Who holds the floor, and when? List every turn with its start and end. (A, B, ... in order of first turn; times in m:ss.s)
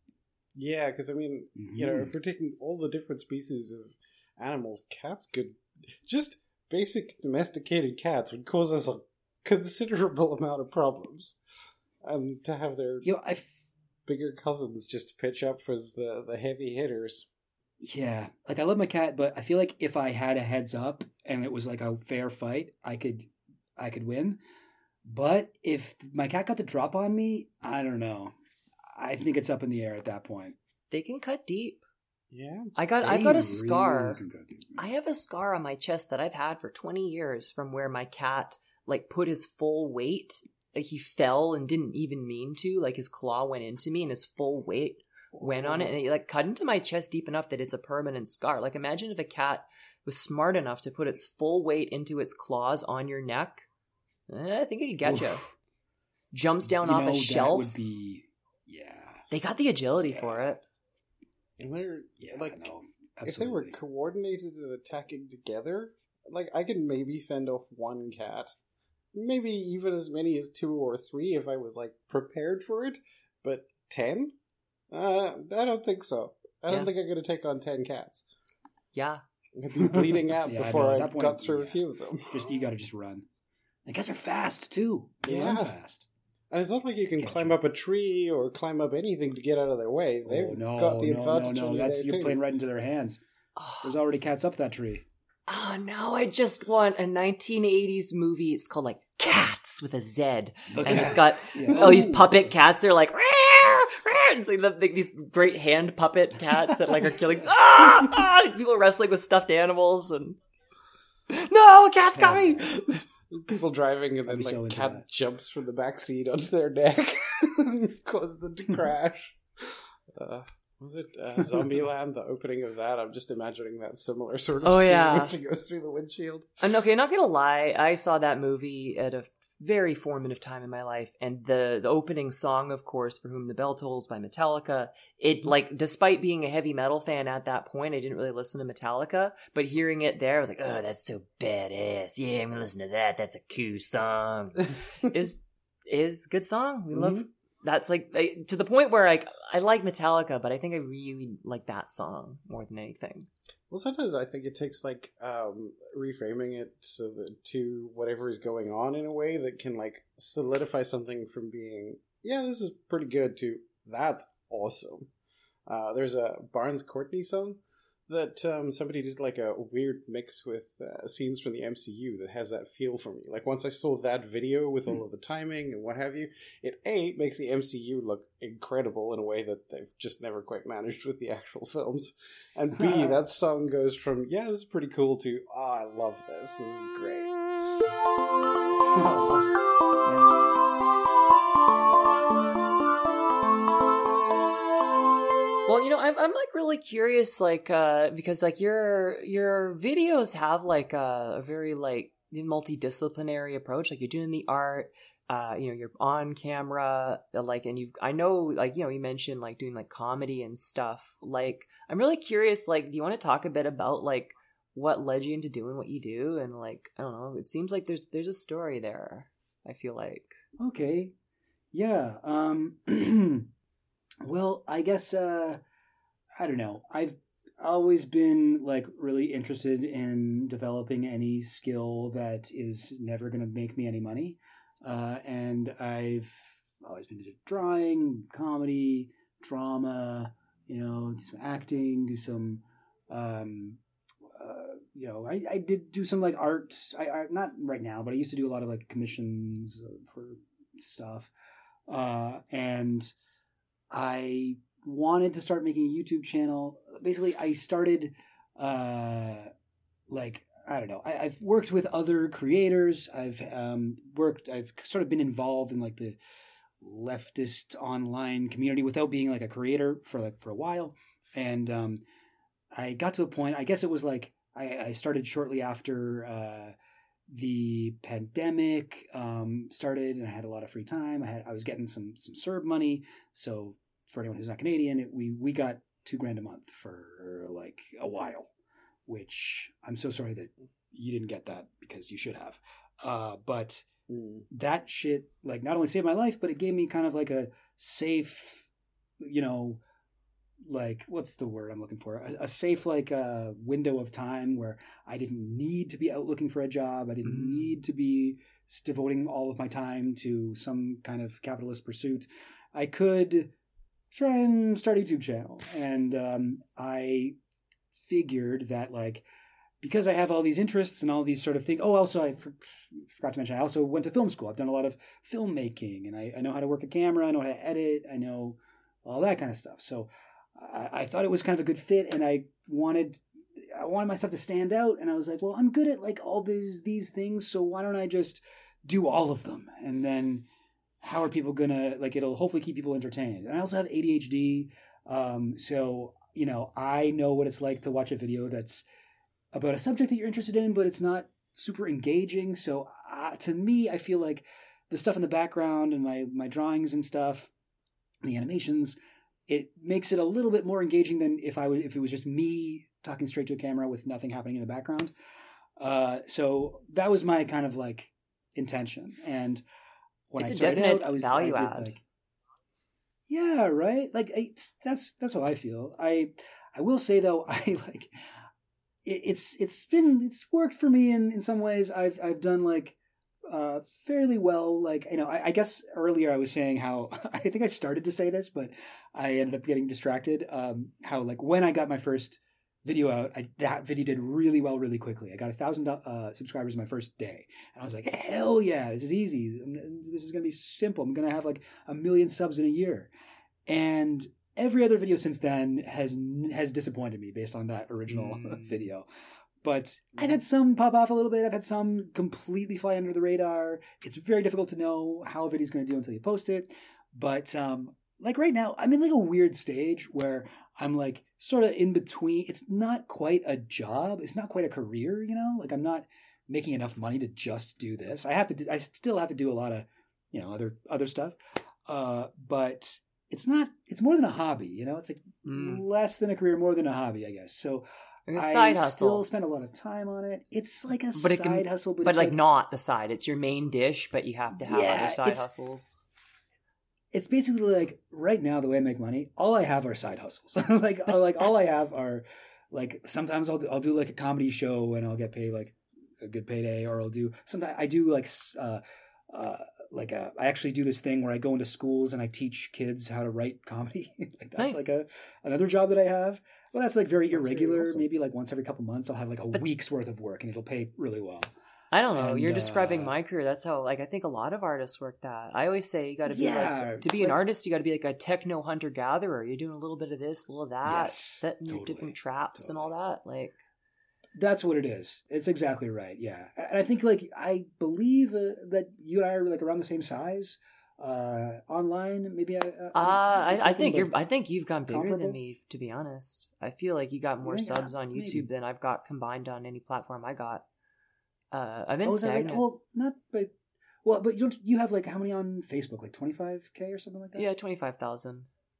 0:00.5-0:11.4 A
0:01.6-0:02.1 B
0:12.0-0:13.1 A
0:13.0-0:13.7 B
0:14.0-0:17.3 A
0:17.8-0:24.4 B
0:25.0-0:28.3 B
0:28.9-0:30.6 B
0:30.9-0:31.8 C
0:32.3-0:32.7 A
0:32.7-0:34.2 C
0:33.0-0:34.8 B
0:34.8-0:53.6 C
0:54.3-0:55.4 C
0:55.0-0:55.5 B
0:56.3-0:57.8 C
0:56.6-0:59.2 B
0:59.3-1:00.6 C
1:00.1-1:00.4 B
1:01.6-1:02.7 A
1:02.2-1:03.8 B
1:03.2-1:08.6 A
1:09.1-1:14.3 A
1:14.9-1:18.2 A
1:18.9-1:19.2 C
1:19.6-1:22.4 A
1:19.8-1:23.2 B
1:23.8-1:26.1 B
1:25.2-1:25.7 A
1:26.5-1:32.4 A
1:27.2-1:27.6 B
1:30.2-1:33.2 B
1:33.6-1:33.9 C
1:33.8-1:35.0 B
1:35.5-1:50.4 C
1:40.7-1:42.5 B
1:51.3-1:53.0 C
1:52.1-1:52.8 B
1:53.3-2:06.6 A
1:54.3-1:55.0 B
2:04.6-2:05.4 C
2:06.6-2:33.3 C
2:26.9-2:27.2 A
2:33.7-2:45.1 A
2:45.7-3:07.3 A
3:02.8-3:03.2 B
3:08.9-3:09.5 B
3:15.7-3:40.4 C
3:40.6-3:41.1 B
3:41.7-3:43.5 B
3:44.2-3:45.6 B
3:46.4-4:11.3 B
4:11.9-4:13.1 B
4:13.9-4:19.5 B
4:20.1-4:26.2 B
4:26.8-4:32.0 B
4:32.7-4:36.7 B
4:37.3-4:48.5 B
4:49.1-4:53.8 B
4:54.1-4:54.4 A
4:54.5-4:58.7 B
4:59.2-4:59.8 B
5:00.6-5:13.5 B
5:07.2-5:07.8 C
5:14.1-5:17.4 B
5:18.0-5:19.2 B
5:19.8-5:40.4 B
5:41.0-5:48.8 B
5:49.5-5:57.5 B
5:58.2-5:59.0 B
5:59.5-6:05.1 B
6:05.8-6:09.6 B
6:10.3-6:12.0 B
6:10.4-6:11.9 C
6:13.3-6:18.1 B
6:19.0-6:43.1 B
6:43.7-6:49.0 B
6:48.2-6:48.8 C
6:49.6-7:22.4 B
7:15.4-7:15.8 C
7:18.3-7:19.2 C
7:21.1-7:26.0 C
7:24.6-7:25.5 B
7:27.1-7:51.5 B
7:31.0-7:31.8 C
7:44.6-7:44.9 C
7:47.3-7:48.0 A
7:51.9-8:03.6 C
7:52.1-7:53.2 B
7:56.3-7:57.4 B
8:00.8-8:02.9 B
8:04.4-8:14.1 B
8:12.9-8:20.6 C
8:14.9-8:15.4 B
8:17.4-8:18.4 B
8:21.5-8:22.6 C
8:22.0-8:23.5 B
8:24.0-8:27.5 B
8:27.3-8:28.5 C